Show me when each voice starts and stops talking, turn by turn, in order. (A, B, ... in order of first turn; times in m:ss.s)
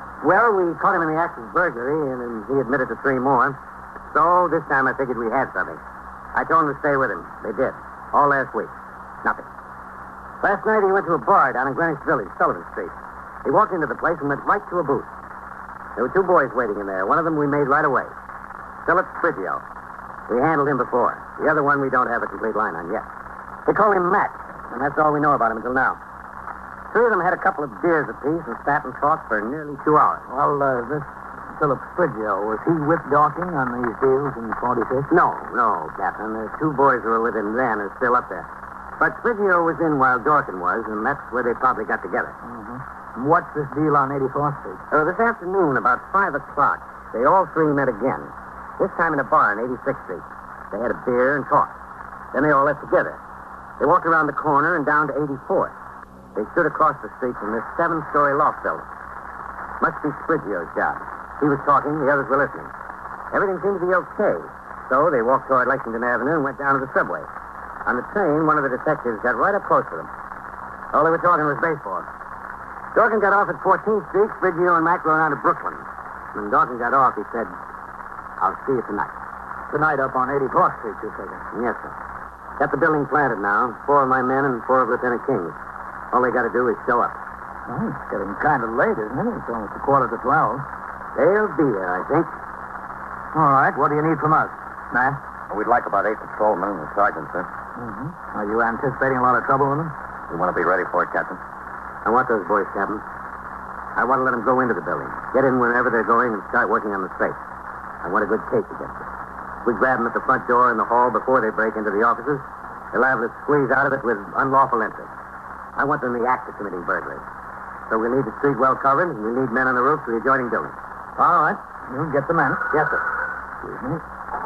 0:00.2-0:03.6 A
0:04.1-0:05.8 A
0:06.4-0:08.7 A
0:10.4-0:12.9 A
0:13.4-0:15.1 A
0:16.0-0:18.1 A
0:18.8-0:19.6 A
0:20.3-0:23.1 A
0:23.7-0:26.0 A
0:26.9-0:30.2 A
0:30.3-0:35.1 B
0:35.1-0:38.5 A
0:39.0-0:42.4 A
0:42.4-0:44.8 B
0:44.9-0:51.7 A
0:52.3-0:53.2 A
0:53.8-0:55.7 A
0:56.4-0:58.9 A
0:59.8-1:02.7 A
1:03.3-1:07.3 A
1:07.9-1:10.1 A
1:10.9-1:12.1 A
1:12.9-1:17.6 A
1:18.4-1:19.1 A
1:19.7-1:21.4 B
1:21.5-1:21.9 A
1:22.6-1:25.6 A
1:26.1-1:27.2 A
1:27.7-1:30.7 B
1:31.2-1:32.3 A
1:33.3-1:35.2 B
1:35.5-1:37.5 C
1:37.8-1:39.9 B
1:40.3-1:41.4 C
1:42.0-1:43.0 A
1:44.0-1:47.4 A
1:48.0-1:49.0 A
1:49.6-1:55.1 A
1:55.8-1:57.2 A
1:57.9-2:00.8 A
2:01.2-2:02.7 B
2:02.7-2:03.0 A
2:03.6-2:04.0 B